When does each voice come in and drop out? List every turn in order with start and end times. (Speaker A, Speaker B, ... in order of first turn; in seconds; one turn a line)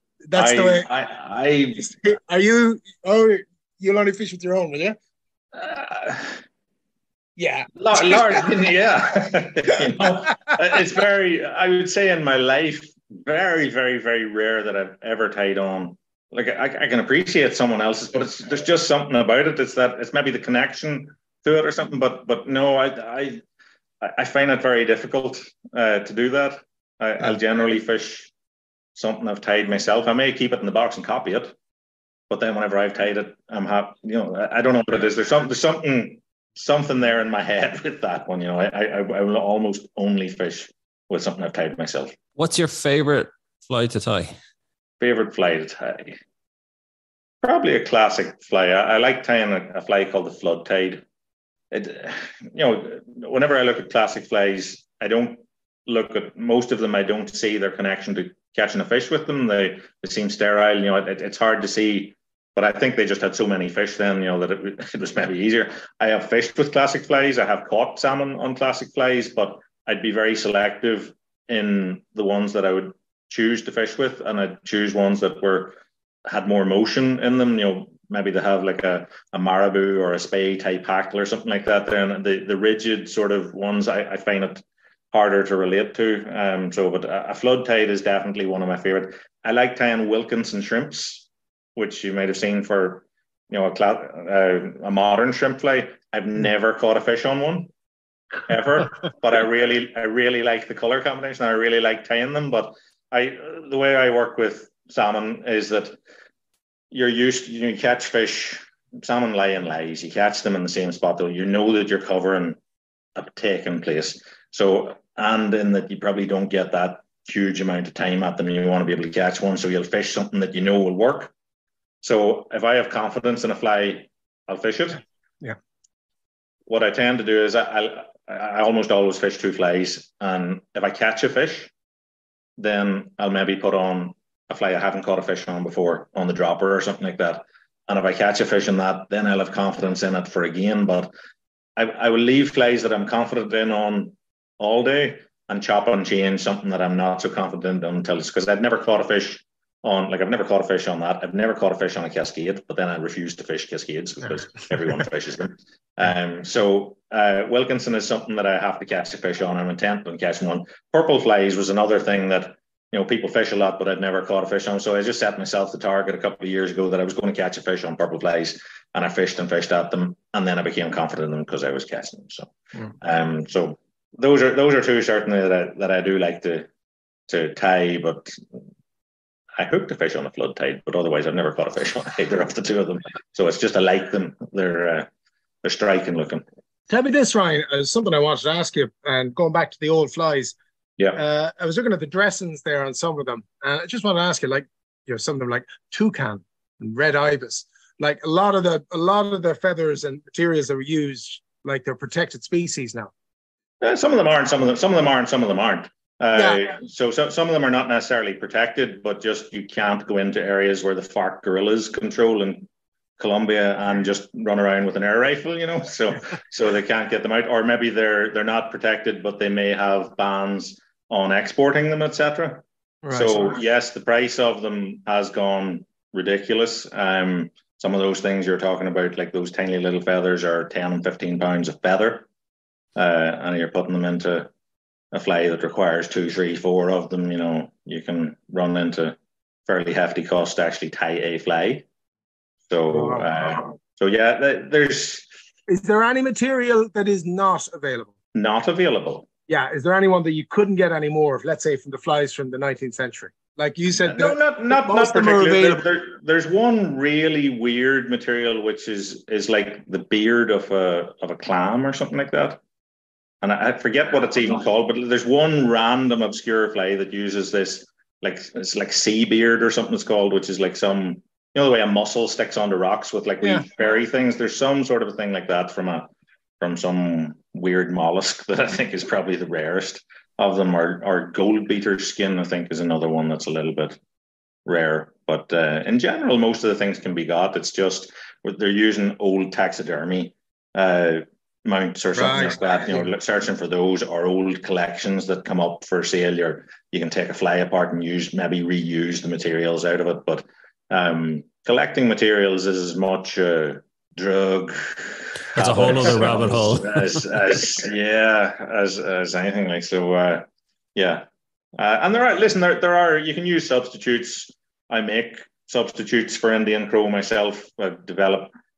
Speaker A: 0.3-0.9
Speaker B: 0.3-1.9
Speaker A: 1.8-5.0
Speaker B: 5.5-6.4
Speaker A: 7.4-8.4
Speaker B: 7.8-23.4
Speaker A: 10.0-10.3
Speaker B: 24.0-28.3
Speaker B: 28.9-31.5
Speaker B: 32.3-42.1
Speaker C: 42.4-44.3
Speaker B: 45.0-46.2
Speaker B: 47.4-51.0
Speaker B: 51.7-97.7
Speaker B: 98.5-106.0
Speaker B: 106.9-112.6
Speaker B: 113.2-121.3
Speaker B: 122.0-125.0
Speaker B: 126.7-131.7
Speaker B: 132.6-141.1
Speaker B: 141.8-176.7
Speaker B: 177.3-178.4
Speaker B: 179.6-185.1
Speaker B: 185.6-186.4
Speaker A: 186.9-190.5
Speaker A: 191.1-203.1
Speaker B: 203.8-232.2
Speaker A: 206.3-206.6
Speaker A: 223.0-223.5
Speaker B: 232.9-234.5
Speaker B: 235.1-241.8
Speaker B: 242.7-245.3
Speaker A: 242.9-243.3
Speaker A: 245.7-248.1
Speaker B: 248.3-249.3
Speaker A: 249.5-255.8
Speaker B: 254.0-262.6
Speaker B: 263.4-276.1
Speaker B: 276.6-284.0
Speaker B: 284.6-311.2
Speaker A: 292.1-293.0
Speaker C: 305.5-307.2
Speaker B: 311.8-318.5